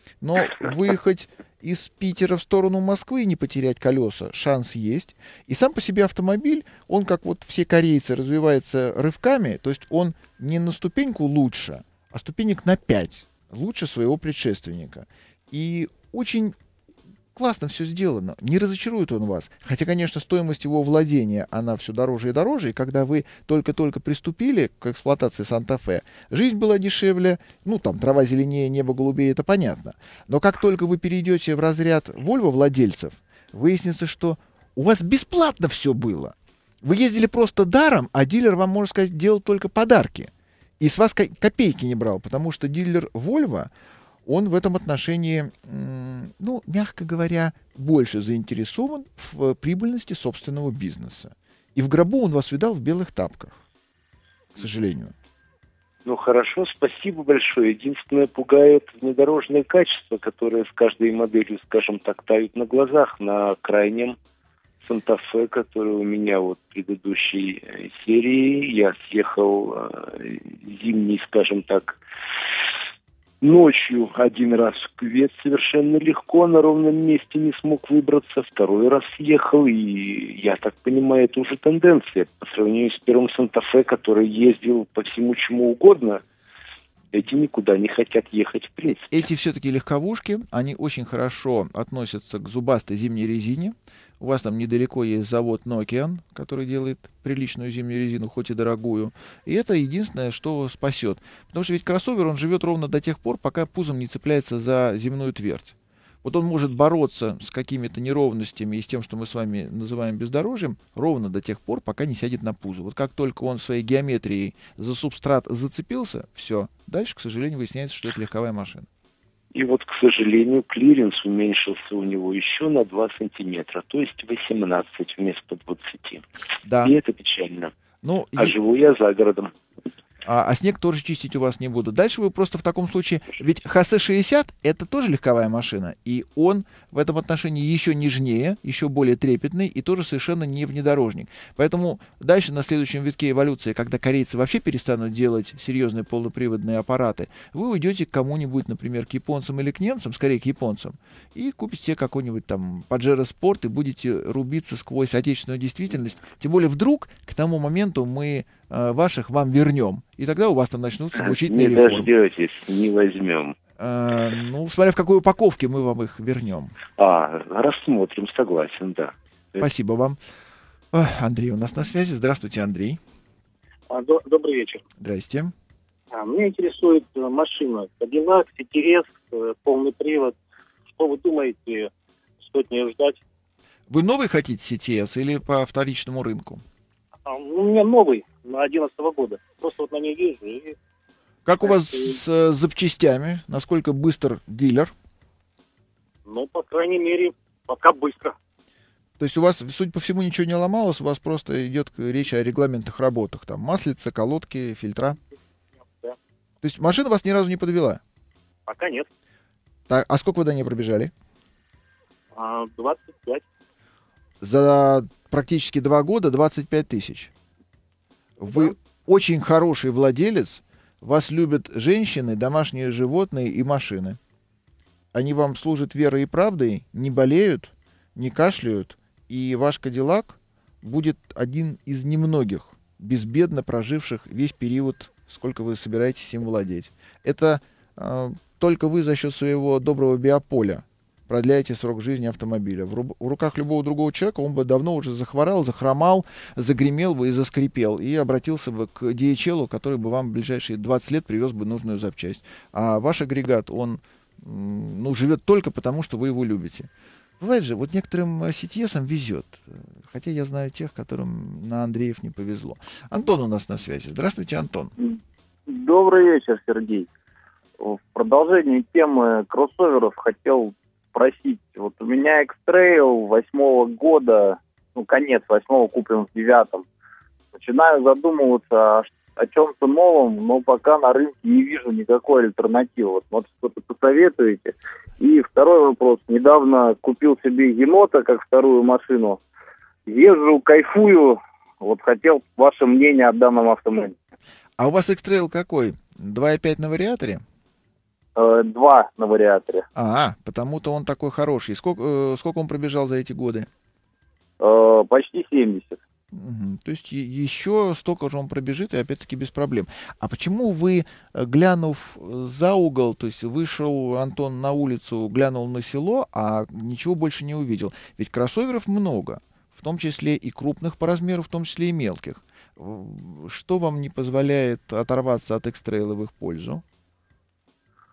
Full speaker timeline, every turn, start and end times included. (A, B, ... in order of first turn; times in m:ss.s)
0:00.2-0:16.6 A
0:17.4-0:43.7 A
0:44.3-0:53.6 A
0:54.6-0:55.1 A
0:56.0-1:04.2 B
1:04.8-1:12.0 B
1:13.4-1:26.2 B
1:27.1-1:29.2 B
1:28.9-1:58.9 A
1:59.5-2:06.3 B
2:06.6-2:07.0 A
2:06.8-2:07.7 B
2:08.0-2:08.6 A
2:08.4-2:09.5 B
2:10.2-2:42.1 A
2:41.2-2:43.6 B
2:43.8-2:46.7 A
2:47.0-2:49.7 B
2:49.6-2:50.2 A
2:50.9-2:53.0 A
2:53.9-2:54.8 C
2:55.0-2:55.5 A
2:56.1-3:00.4 C
3:01.0-3:01.9 C
3:02.4-3:03.2 C
3:03.9-3:06.6 A
3:07.3-3:10.8 C
3:11.4-3:14.9 A
3:11.6-3:12.2 C
3:16.3-3:18.4 C
3:19.2-3:25.2 A
3:25.9-3:26.2 C
3:26.6-3:28.0 A
3:28.7-3:29.1 C
3:29.9-3:31.1 A
3:32.4-3:33.4 C
3:34.4-3:37.3 A
3:38.4-3:44.2 A
3:45.1-4:16.9 A
4:17.4-4:24.9 A
4:25.7-4:27.1 D
4:27.8-4:36.8 D
4:37.6-4:49.4 D
4:50.1-4:54.2 D
4:54.8-4:57.4 A
4:58.4-4:59.8 D
5:00.0-5:03.7 A
5:04.6-5:06.0 D
5:06.3-5:26.8 A